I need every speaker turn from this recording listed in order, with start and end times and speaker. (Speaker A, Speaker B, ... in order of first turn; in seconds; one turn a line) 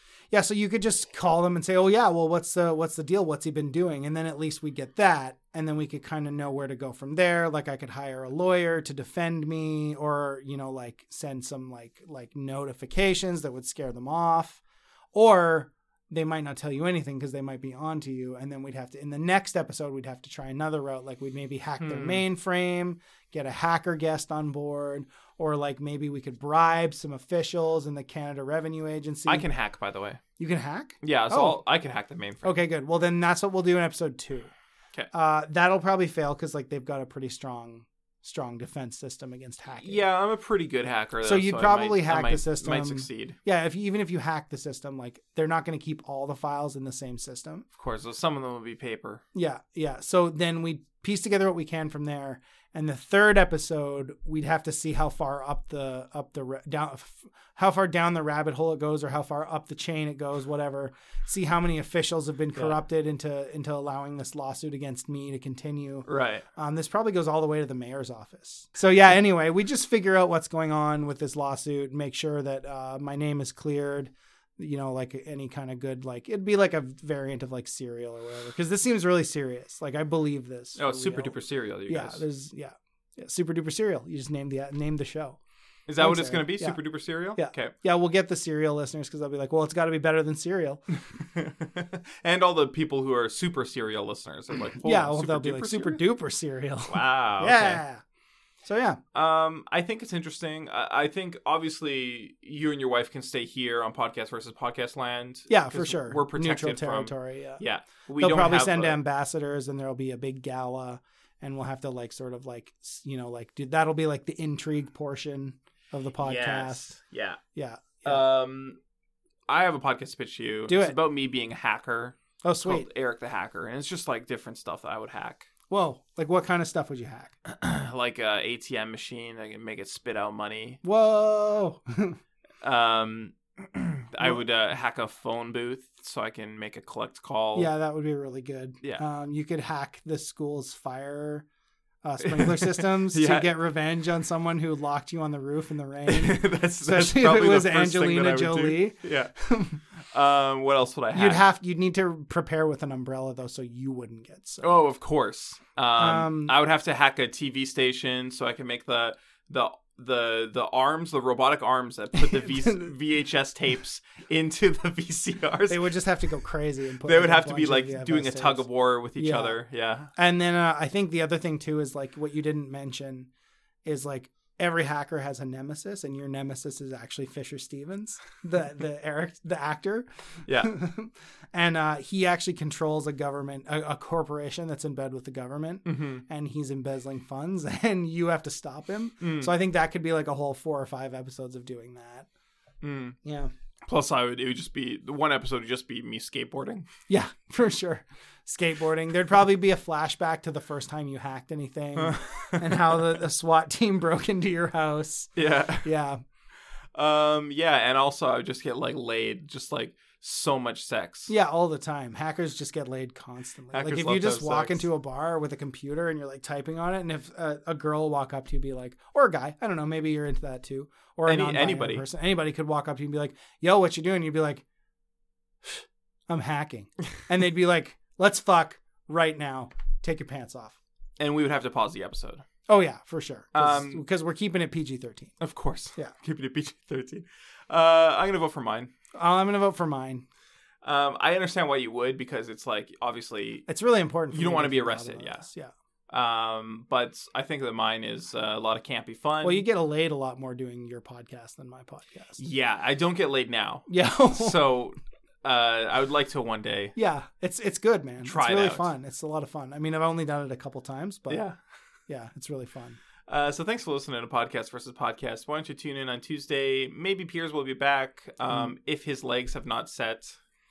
Speaker A: 0.3-14.6
Speaker A: 15.1-29.5
Speaker B: 21.8-22.2
Speaker B: 29.3-30.2
Speaker A: 30.4-31.6
Speaker B: 31.0-32.5
Speaker A: 32.4-34.5
Speaker A: 35.1-40.0
Speaker B: 39.8-43.4
Speaker A: 41.2-47.7
Speaker B: 47.8-49.2
Speaker A: 49.3-81.4
Speaker B: 62.5-62.8
Speaker B: 66.1-66.5
Speaker B: 80.8-82.2
Speaker A: 81.9-85.4
Speaker B: 85.9-87.8
Speaker A: 86.0-90.8
Speaker B: 91.3-96.0
Speaker A: 94.8-98.0
Speaker B: 96.9-97.8
Speaker A: 98.7-99.0
Speaker B: 99.1-109.0
Speaker A: 105.5-107.6
Speaker A: 108.2-116.9
Speaker B: 116.2-117.4
Speaker A: 117.5-118.3
Speaker B: 118.0-118.8
Speaker B: 119.5-125.5
Speaker A: 120.7-121.0
Speaker A: 122.4-122.9
Speaker A: 125.7-127.3
Speaker B: 127.5-130.8
Speaker A: 130.8-132.2
Speaker B: 132.6-137.7
Speaker A: 137.6-141.5
Speaker A: 142.0-149.8
Speaker B: 142.2-143.5
Speaker B: 146.1-149.3
Speaker B: 150.1-151.4
Speaker A: 151.1-154.6
Speaker B: 154.6-165.9
Speaker A: 156.0-156.6
Speaker A: 162.2-162.9
Speaker A: 165.7-169.6
Speaker B: 167.0-170.1
Speaker A: 170.2-173.3
Speaker A: 173.8-192.3
Speaker B: 185.9-186.2
Speaker B: 189.2-189.5
Speaker B: 192.8-193.2
Speaker A: 193.2-193.5
Speaker B: 193.9-196.9
Speaker A: 197.1-206.2
Speaker B: 202.0-202.4
Speaker B: 205.4-205.9
Speaker B: 206.9-211.3
Speaker A: 211.3-224.6
Speaker B: 213.7-214.9
Speaker B: 221.3-222.0
Speaker A: 225.7-230.8
Speaker B: 231.2-232.4
Speaker A: 232.7-235.4
Speaker B: 233.5-234.0
Speaker B: 235.4-238.9
Speaker A: 239.2-240.2
Speaker B: 240.8-243.7
Speaker A: 243.7-245.7
Speaker B: 244.3-245.5
Speaker B: 246.1-249.6
Speaker A: 249.4-252.4
Speaker B: 252.4-256.9
Speaker A: 253.9-254.7
Speaker A: 257.0-261.4
Speaker B: 258.2-258.9
Speaker B: 261.3-261.6
Speaker A: 262.1-263.0
Speaker B: 263.3-270.4